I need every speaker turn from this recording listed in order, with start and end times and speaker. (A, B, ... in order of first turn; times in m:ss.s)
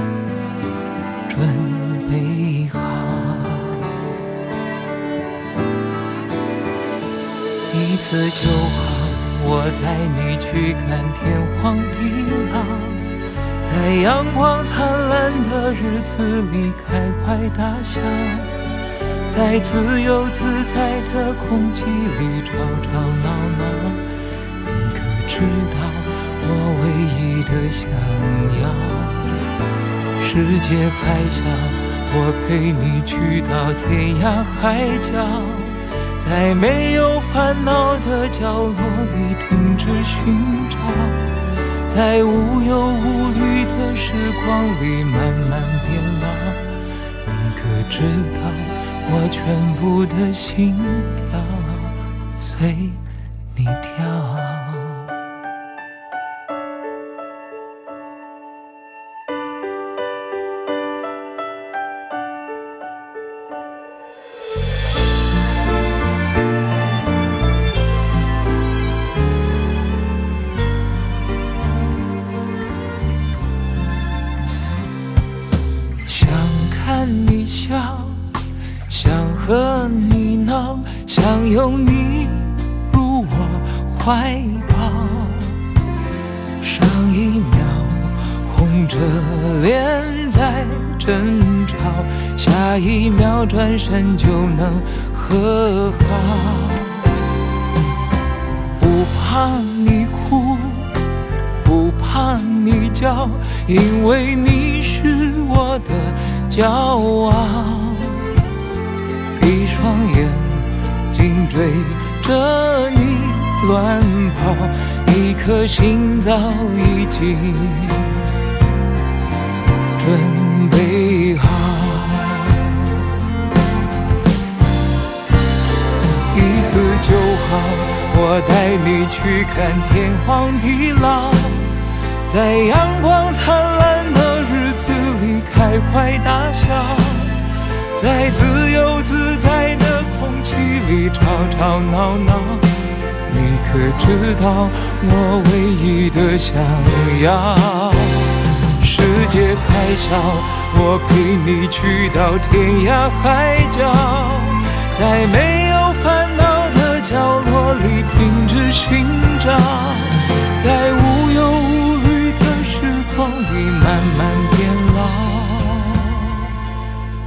0:01.3-0:04.2 A
0:07.7-0:18.6 A
0:19.3-0:29.4 A
0:30.2-0:55.2 A
1:16.0-1:25.7 A
1:26.6-1:37.2 A
1:38.8-1:48.4 A
1:49.4-1:58.4 A
2:00.0-2:03.0 A
2:06.3-2:46.6 A